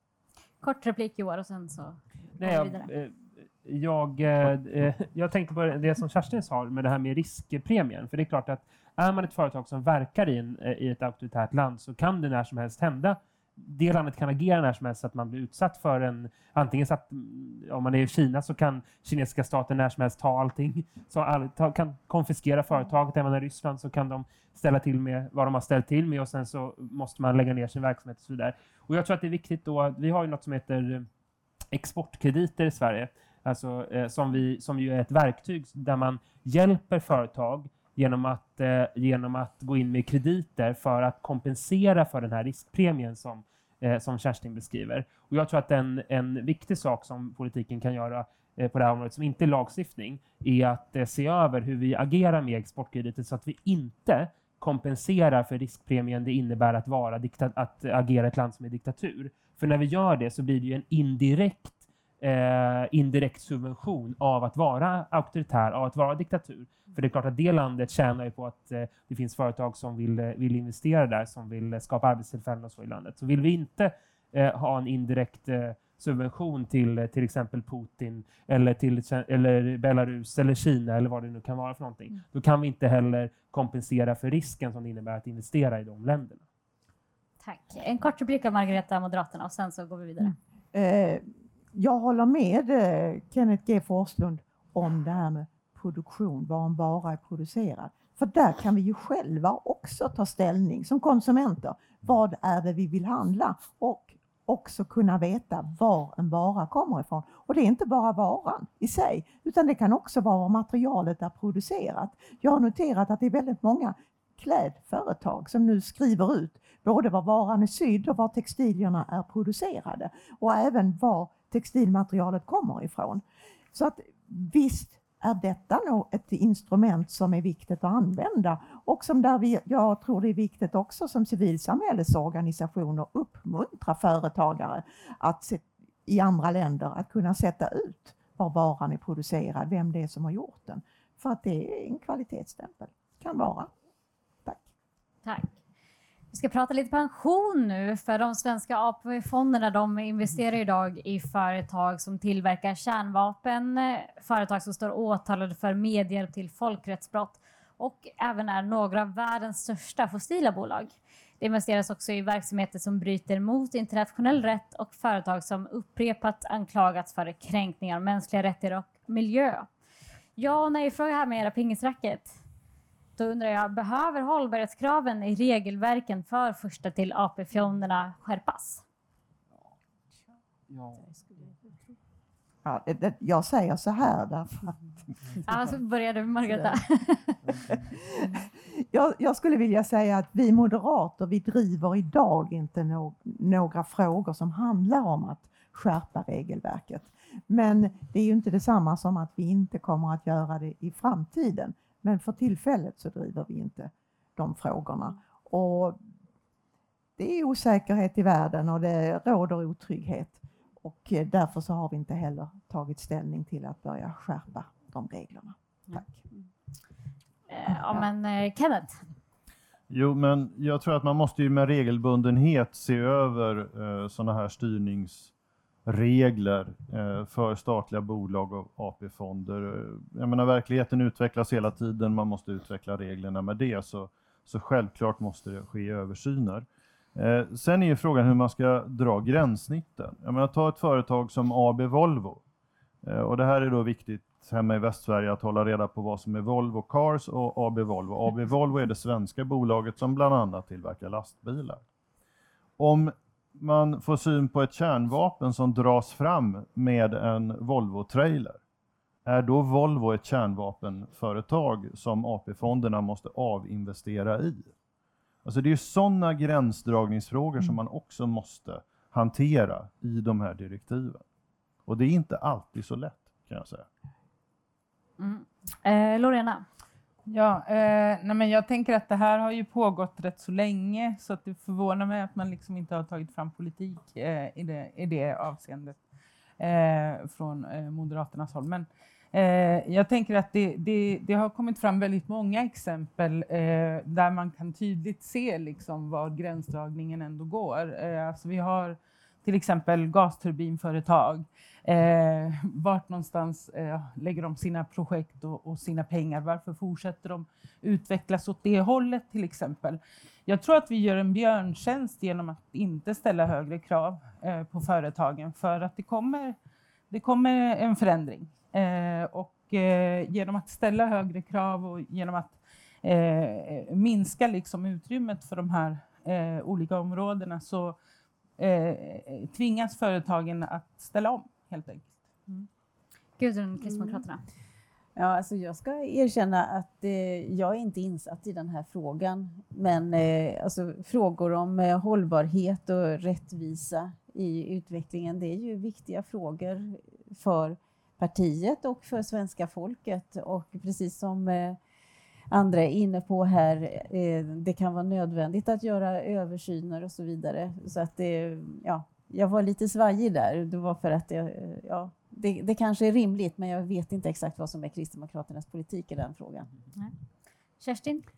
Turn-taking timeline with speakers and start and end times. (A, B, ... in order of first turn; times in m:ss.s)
0:00.6-0:02.9 A
0:02.4-0:31.1 B
0:31.7-1:26.4 B
1:27.4-1:30.4 A
1:30.7-2:23.7 C
2:25.2-2:25.5 A
2:26.3-2:49.7 A
2:50.4-2:52.4 A
2:53.2-2:58.8 A
3:01.1-3:01.5 D
3:02.6-3:04.9 C
3:05.5-3:07.2 A
3:07.7-3:26.0 C
3:27.2-3:36.1 C
3:37.5-3:39.0 A
3:39.9-3:45.3 E
3:45.8-4:02.4 E
4:03.0-4:11.8 E
4:12.8-4:18.6 E
4:19.2-4:24.7 E
4:25.4-4:31.2 E
4:31.8-4:33.8 E
4:35.2-4:36.6 A
4:37.3-4:46.0 F
4:46.6-5:16.6 F
5:17.1-5:28.0 F
5:28.6-5:32.2 F
5:33.4-5:34.4 A
5:33.8-5:34.2 D
5:35.2-5:51.8 D
5:52.5-6:06.7 D
6:07.8-6:08.2 A